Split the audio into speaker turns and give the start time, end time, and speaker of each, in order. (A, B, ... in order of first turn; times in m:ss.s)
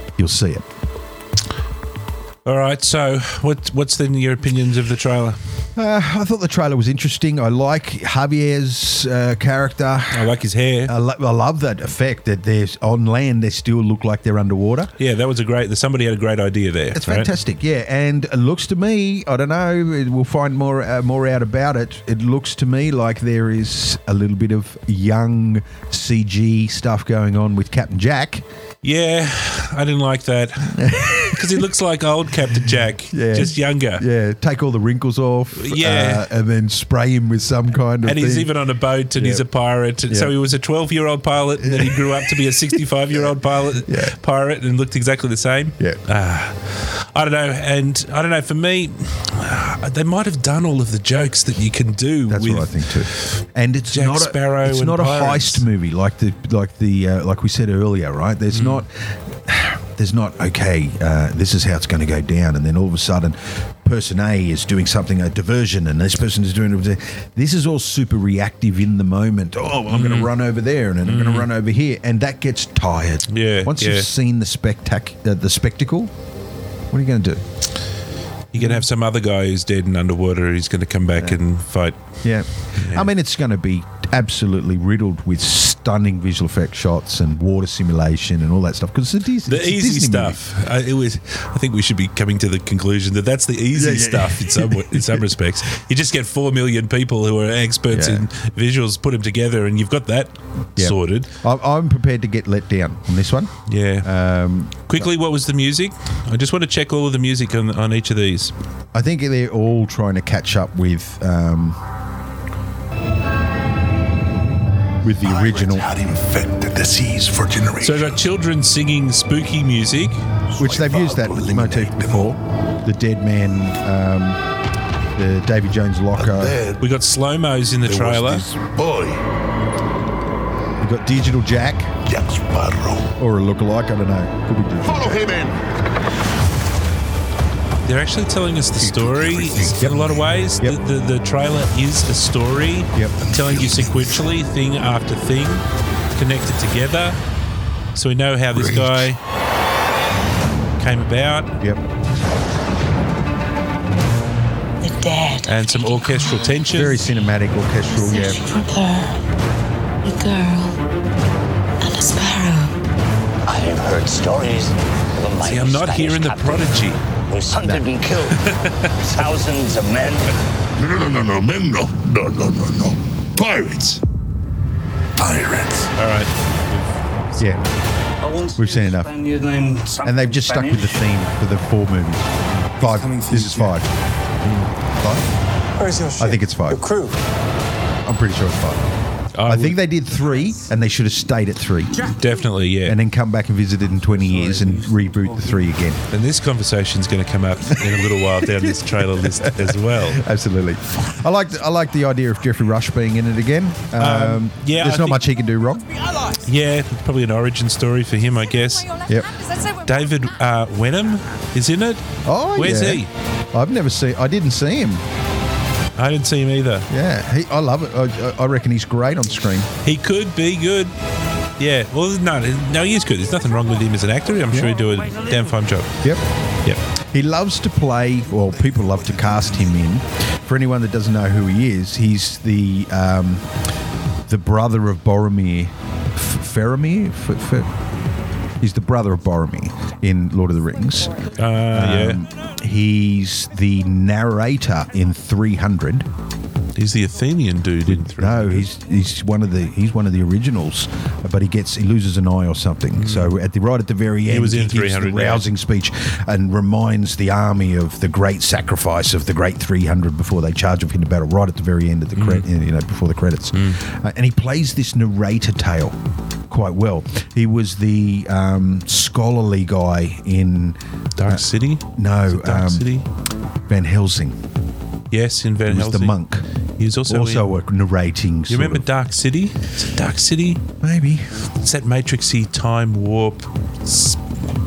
0:00.2-0:00.7 A
0:02.4-0:05.4 B
0:05.8-0:10.3 A
0:10.1-0:10.9 B
0:10.8-0:14.9 A
0:15.0-0:17.3 B
0:16.9-0:28.4 A
0:28.8-0:34.0 B
0:30.7-0:31.6 A
0:33.1-0:38.5 A
0:35.5-0:36.3 B
0:38.0-0:53.4 B
0:39.1-0:39.4 A
0:40.1-0:40.4 A
0:41.6-0:42.2 A
0:43.9-0:44.1 A
0:52.3-1:16.1 A
0:53.9-0:55.6 B
0:58.5-0:58.8 B
1:09.9-1:10.3 B
1:11.0-1:11.5 B
1:13.3-1:14.1 B
1:16.9-1:17.4 A
1:18.5-1:22.0 B
1:18.6-1:18.8 A
1:22.2-1:30.4 A
1:22.8-1:23.1 B
1:29.5-1:41.3 B
1:33.7-1:35.3 A
1:37.9-1:38.3 A
1:40.8-1:45.1 A
1:43.7-1:44.1 B
1:44.9-1:48.5 B
1:48.9-1:51.8 A
1:55.0-1:55.9 A
1:55.2-1:58.2 C
1:57.8-2:00.2 B
2:00.6-2:02.3 C
2:00.6-2:04.4 A
2:05.2-2:06.6 A
2:06.2-2:06.8 C
2:06.8-2:08.4 B
2:07.8-2:09.2 C
2:10.8-2:12.0 A
2:12.0-2:13.1 C
2:13.2-2:15.4 A
2:15.0-2:15.5 C
2:17.8-2:27.2 B
2:18.8-2:20.0 C
2:23.5-2:24.0 C
2:27.9-2:29.2 B
2:28.5-2:29.1 C
2:30.8-2:31.5 B
2:34.8-2:35.9 D
2:35.4-2:37.0 B
2:36.7-2:38.4 A
2:38.1-2:39.1 D
2:40.1-2:40.7 D
2:41.8-2:42.7 D
2:43.4-2:50.3 E
2:45.4-2:47.0 B
2:47.6-2:47.8 A
2:48.3-2:49.0 B
2:50.8-2:54.0 C
2:55.2-2:55.9 C
2:55.9-2:57.4 B
2:57.4-2:57.6 A
2:58.5-2:59.2 A
3:00.0-3:03.9 A
3:02.8-3:03.7 F
3:04.4-3:04.7 B
3:05.0-3:05.2 A
3:05.8-3:07.1 F
3:06.2-3:06.9 A
3:08.0-3:08.9 A
3:09.4-3:09.8 B
3:09.4-3:12.1 A
3:12.0-3:13.0 B
3:12.8-3:16.0 A
3:16.1-3:20.2 B
3:18.4-3:25.9 A
3:24.0-3:25.2 B
3:26.4-3:28.9 B
3:29.1-3:29.4 A
3:29.8-3:33.1 B
3:32.2-3:35.0 A
3:36.0-3:36.9 B
3:36.9-3:39.7 A
3:39.8-3:40.9 B
3:41.6-3:46.0 B
3:44.5-3:44.8 A
3:47.0-3:53.5 A
3:54.3-3:57.7 A
3:58.6-4:06.1 A
4:01.4-4:02.2 B
4:06.8-4:08.7 B
4:07.8-4:26.0 A
4:13.0-4:13.3 B
4:14.3-4:15.4 B
4:22.1-4:22.4 B
4:23.5-4:23.8 B
4:26.5-4:32.9 A
4:31.2-4:33.1 B
4:33.7-4:34.4 A
4:35.1-4:36.2 B
4:35.6-4:36.4 A
4:36.8-4:37.5 B
4:37.1-4:38.8 A
4:38.5-4:40.6 B
4:40.8-4:41.3 A
4:41.6-4:44.2 B